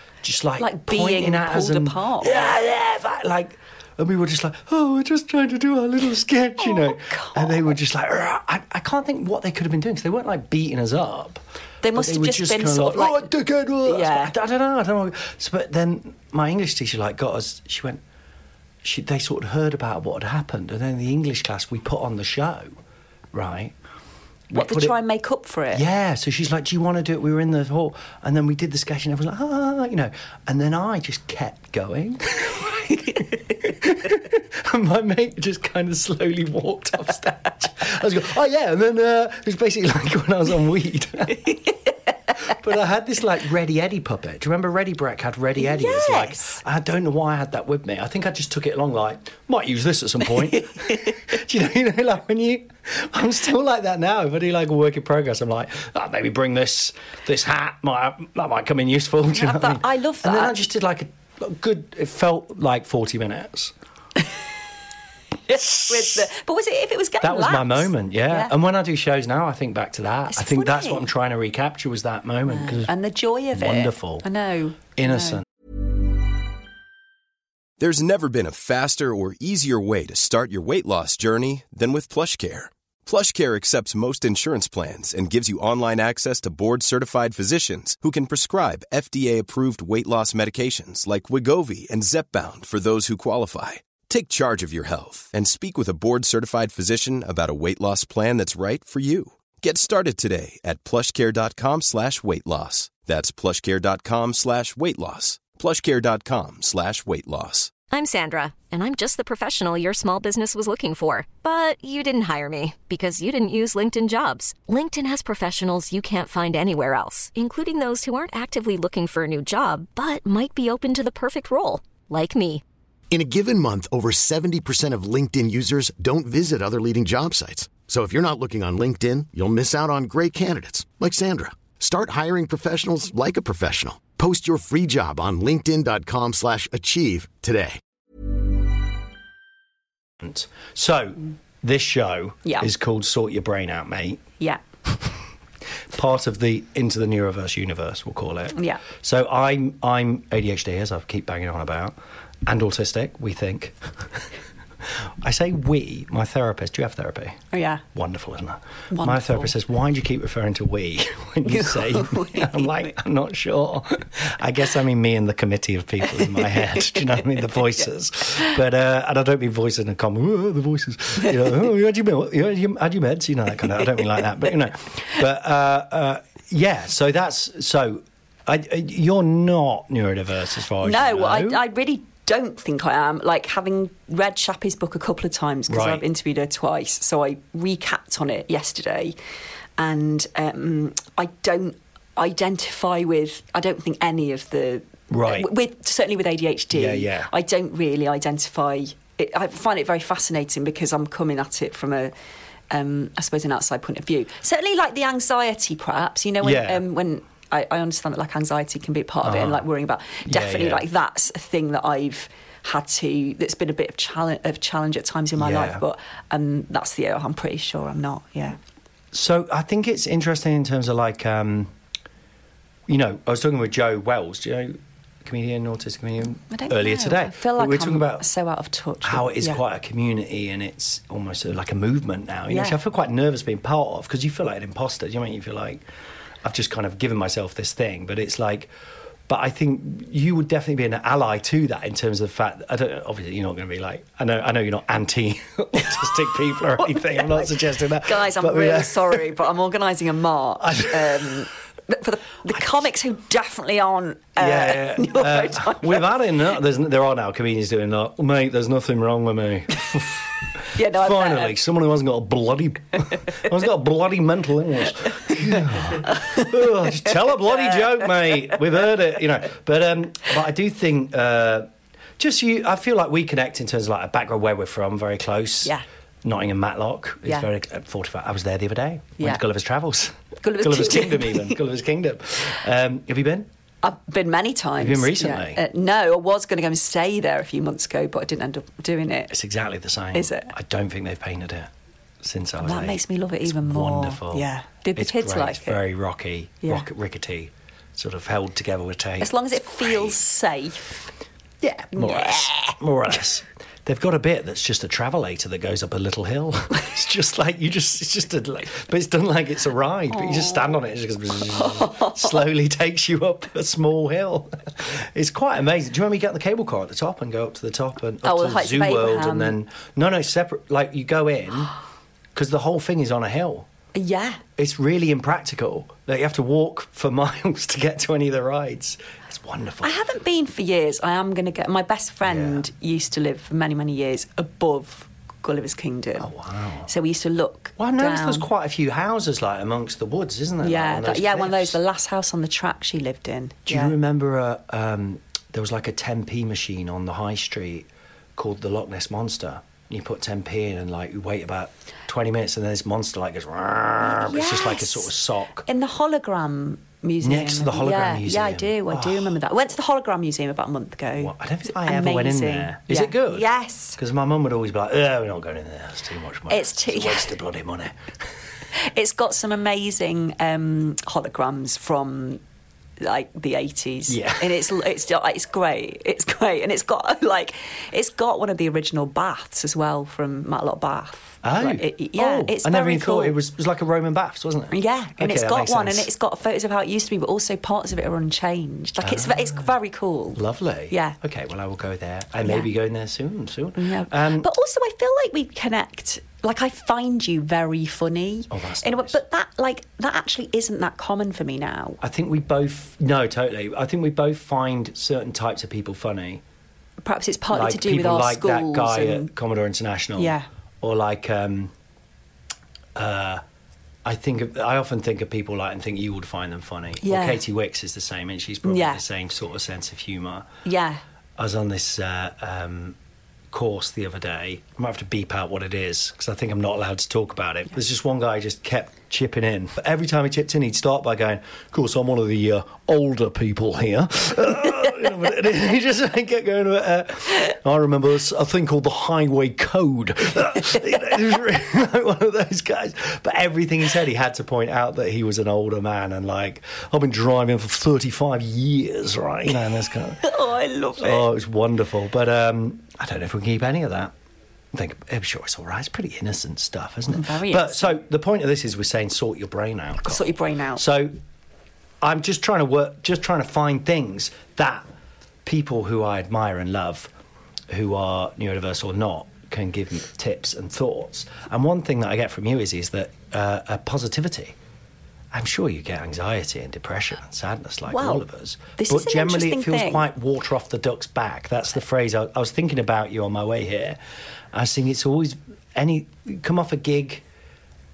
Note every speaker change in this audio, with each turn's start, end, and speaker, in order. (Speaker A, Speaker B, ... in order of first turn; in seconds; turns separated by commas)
Speaker A: 0.2-11.4, Speaker B: 0.6-2.5, Speaker B: 6.6-7.8, Speaker B: 11.8-13.3, Speaker A: 11.9-18.0, Speaker B: 13.8-14.3, Speaker A: 18.8-22.7, Speaker A: 23.3-23.8, Speaker A: 24.5-24.9, Speaker B: 24.5-25.8, Speaker A: 25.7-41.5, Speaker A: 42.4-63.7, Speaker B: 45.6-46.6, Speaker B: 50.5-51.1, Speaker B: 59.3-60.6, Speaker B: 65.5-68.5, Speaker A: 65.5-66.3, Speaker A: 67.2-72.9, Speaker B: 70.3-71.1, Speaker B: 72.5-75.4, Speaker A: 73.5-74.2, Speaker A: 75.0-75.4, Speaker C: 77.8-107.8, Speaker D: 107.9-122.6, Speaker E: 123.1-137.8, Speaker A: 140.2-144.2, Speaker B: 142.4-142.7, Speaker A: 145.9-154.2, Speaker B: 148.5-148.8, Speaker A: 155.2-157.4, Speaker B: 157.5-157.8, Speaker A: 157.9-181.6, Speaker B: 158.9-159.5, Speaker B: 161.4-162.9, Speaker B: 166.2-166.9, Speaker B: 180.8-189.2, Speaker A: 185.7-186.0, Speaker B: 189.8-202.1, Speaker A: 195.1-195.5, Speaker A: 196.7-197.3, Speaker B: 202.7-218.6, Speaker A: 206.4-206.8, Speaker A: 209.2-209.6, Speaker A: 210.3-210.8, Speaker A: 215.4-215.8, Speaker A: 219.1-221.7, Speaker A: 222.9-228.2, Speaker B: 226.5-229.6, Speaker A: 229.0-235.8, Speaker B: 232.5-232.8, Speaker A: 236.4-238.7, Speaker A: 239.3-249.4, Speaker B: 246.8-256.2, Speaker A: 250.6-251.5, Speaker A: 254.4-283.5, Speaker B: 260.7-261.6, Speaker B: 265.2-268.6, Speaker B: 280.4-281.6, Speaker B: 283.8-289.3, Speaker A: 284.8-285.6, Speaker A: 289.3-291.7, Speaker B: 290.1-290.5, Speaker A: 292.2-300.2, Speaker B: 292.6-295.8, Speaker B: 299.2-301.0, Speaker B: 301.6-302.8, Speaker A: 301.6-321.7, Speaker B: 310.1-310.7, Speaker B: 311.4-312.4, Speaker B: 318.2-319.6, Speaker A: 322.3-323.7, Speaker B: 323.9-324.4, Speaker A: 324.6-329.9, Speaker B: 329.8-336.3, Speaker A: 332.2-332.6, Speaker A: 336.2-336.9, Speaker B: 336.9-338.4, Speaker A: 337.8-341.8, Speaker B: 340.6-343.9, Speaker A: 343.7-355.6, Speaker B: 354.0-355.1, Speaker B: 355.6-364.0, Speaker A: 357.2-359.4, Speaker A: 361.1-367.9, Speaker B: 366.5-367.3, Speaker B: 368.8-372.4, Speaker B: 373.0-383.4, Speaker A: 374.1-374.7, Speaker A: 381.4-386.1, Speaker B: 384.7-391.2, Speaker A: 389.0-389.7, Speaker A: 390.4-394.5, Speaker B: 392.4-392.7, Speaker B: 393.8-402.0, Speaker A: 398.5-399.2, Speaker A: 402.0-406.4, Speaker B: 407.0-409.3, Speaker A: 407.5-411.7, Speaker B: 410.2-410.5, Speaker A: 412.9-413.4, Speaker A: 414.0-420.5, Speaker B: 417.0-417.4, Speaker B: 418.6-419.0, Speaker B: 420.6-421.0, Speaker A: 421.4-423.0, Speaker A: 423.5-450.4, Speaker B: 450.2-451.3, Speaker A: 451.0-454.1, Speaker A: 454.7-461.1, Speaker B: 457.1-458.0, Speaker B: 460.0-460.8, Speaker A: 462.0-464.8, Speaker A: 465.4-467.1, Speaker A: 467.7-474.6, Speaker A: 475.3-484.0, Speaker B: 477.9-478.2, Speaker B: 478.8-480.0, Speaker A: 484.5-487.2